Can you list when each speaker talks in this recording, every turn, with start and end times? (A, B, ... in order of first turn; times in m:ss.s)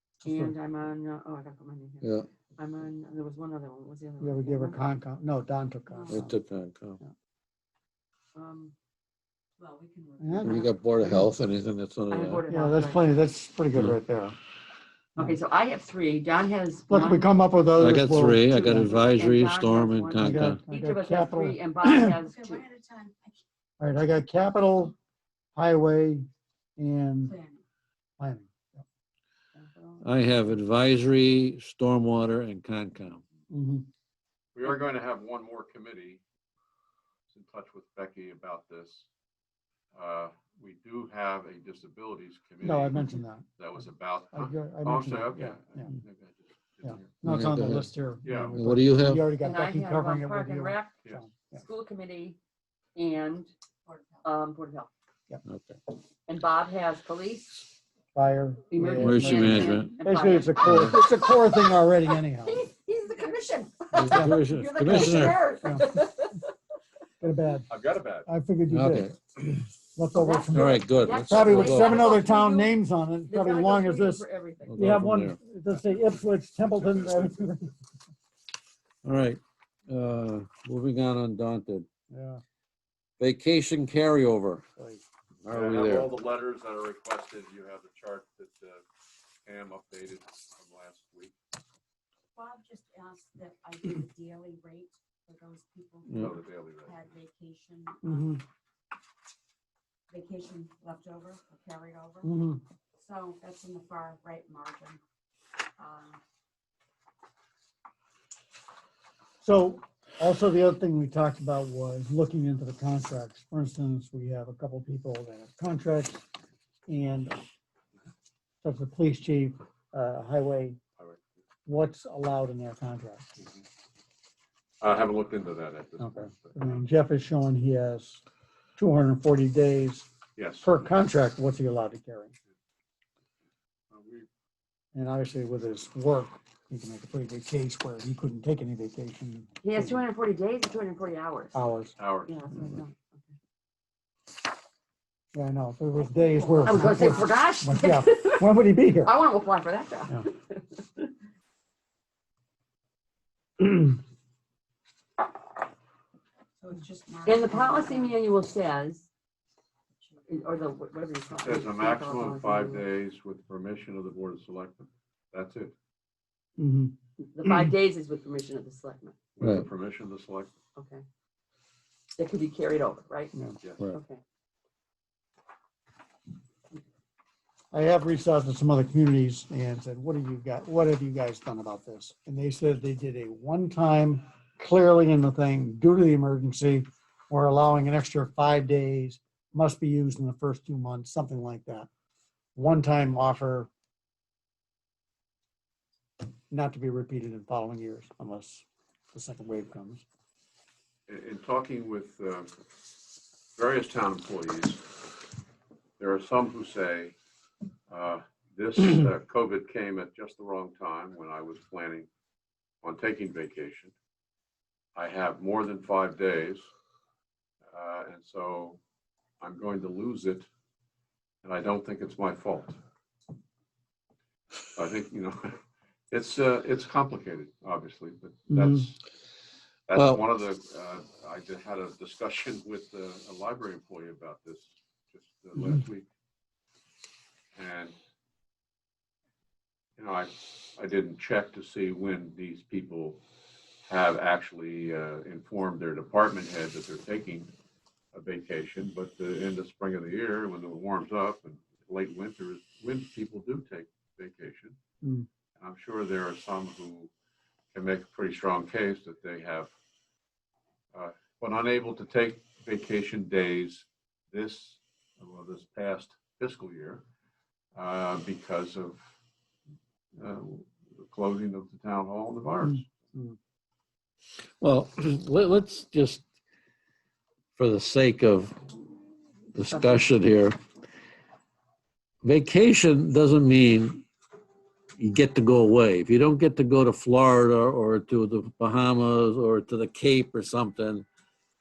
0:00.2-0:04.8 A
0:00.2-0:00.6 B
0:02.0-0:02.3 C
0:04.2-0:06.4 B
0:05.9-0:06.2 D
0:06.1-0:07.0 C
0:08.4-0:08.7 A
0:09.6-0:10.8 D
0:10.2-0:11.3 B
0:10.4-0:12.4 C
0:12.1-0:13.0 A
0:12.5-0:14.4 B
0:15.2-0:17.3 A
0:16.9-0:19.0 B
0:17.8-0:20.6 C
0:18.5-0:22.6 A
0:20.2-0:22.2 B
0:22.2-0:23.4 D
0:23.8-0:25.0 B
0:25.6-0:26.3 B
0:26.8-0:27.4 B
0:27.2-0:27.6 D
0:28.2-0:28.8 B
0:29.6-0:30.1 A
0:30.0-0:33.2 C
0:33.5-0:33.9 B
0:34.6-0:36.2 E
0:37.3-0:39.1 E
0:39.9-0:47.2 E
0:42.6-0:43.5 B
0:44.3-0:46.0 B
0:46.8-0:51.6 B
0:47.2-0:47.9 C
0:48.2-0:48.6 E
0:48.5-0:49.3 C
0:49.3-0:51.0 A
0:51.5-0:52.4 A
0:53.0-0:53.5 A
0:53.8-0:54.3 D
0:54.2-0:54.9 A
0:55.5-0:55.8 C
0:56.3-0:57.7 A
0:58.1-1:02.6 B
0:58.7-1:06.5 A
0:58.9-1:00.0 C
1:00.6-1:01.0 C
1:04.0-1:05.5 C
1:04.0-1:06.0 B
1:07.2-1:07.7 B
1:07.7-1:08.3 E
1:08.3-1:09.2 B
1:08.7-1:09.2 C
1:10.0-1:14.3 B
1:10.1-1:14.9 A
1:10.5-1:12.0 C
1:14.6-1:15.4 C
1:14.8-1:17.7 B
1:16.7-1:17.5 E
1:19.0-1:21.9 C
1:22.1-1:22.4 B
1:23.2-1:24.6 C
1:24.8-1:25.0 B
1:25.4-1:26.1 C
1:25.5-1:28.8 E
1:29.5-1:31.3 E
1:32.3-1:38.4 D
1:36.1-1:36.4 C
1:36.1-1:37.0 E
1:38.0-1:38.4 B
1:40.1-1:42.3 D
1:42.2-1:42.6 B
1:43.0-1:45.0 D
1:45.8-1:46.2 D
1:49.4-1:56.3 B
1:56.9-1:57.4 B
1:58.6-2:00.8 B
2:01.7-2:03.4 B
2:04.8-2:06.8 E
2:06.0-2:08.2 B
2:08.8-2:10.1 B
2:10.4-2:10.8 E
2:10.6-2:12.3 B
2:13.9-2:14.3 E
2:15.0-2:20.0 B
2:19.6-2:21.6 A
2:21.5-2:22.0 B
2:22.0-2:22.4 E
2:22.3-2:23.1 A
2:25.4-2:29.1 B
2:26.0-2:27.3 D
2:26.6-2:28.5 A
2:29.0-2:31.1 A
2:36.6-2:38.3 D
2:37.3-2:39.1 A
2:40.0-2:40.7 D
2:40.3-2:42.8 A
2:41.4-2:45.7 E
2:46.6-2:47.0 B
2:47.2-2:49.2 A
2:49.4-2:50.5 E
2:49.4-2:49.7 C
2:50.8-2:51.0 A
2:52.2-2:53.3 A
2:53.3-2:53.6 B
2:53.9-2:54.2 A
2:57.7-3:11.9 B
3:12.6-3:13.7 B
3:16.5-3:20.0 B
3:21.1-3:22.5 E
3:23.6-3:24.8 E
3:26.0-3:27.2 E
3:27.9-3:32.1 E
3:32.8-3:33.9 E
3:35.0-3:36.7 E
3:37.7-3:38.8 E
3:39.4-3:40.5 E
3:41.4-3:42.8 E
3:44.8-3:45.6 E
3:46.1-3:49.0 E
3:48.5-3:48.8 B
3:49.9-3:56.1 E
3:50.0-3:50.2 C
3:57.6-3:58.0 E
4:00.0-4:03.2 E
4:03.9-4:07.5 E
4:08.1-4:14.8 E
4:15.6-4:17.1 E
4:17.7-4:19.7 E
4:20.9-4:27.0 E
4:27.8-4:29.0 E
4:30.2-4:32.8 E
4:32.6-4:33.4 B
4:34.6-4:36.2 C
4:37.6-4:38.6 C
4:39.6-4:40.6 C
4:42.2-4:44.1 C
4:45.0-4:51.1 C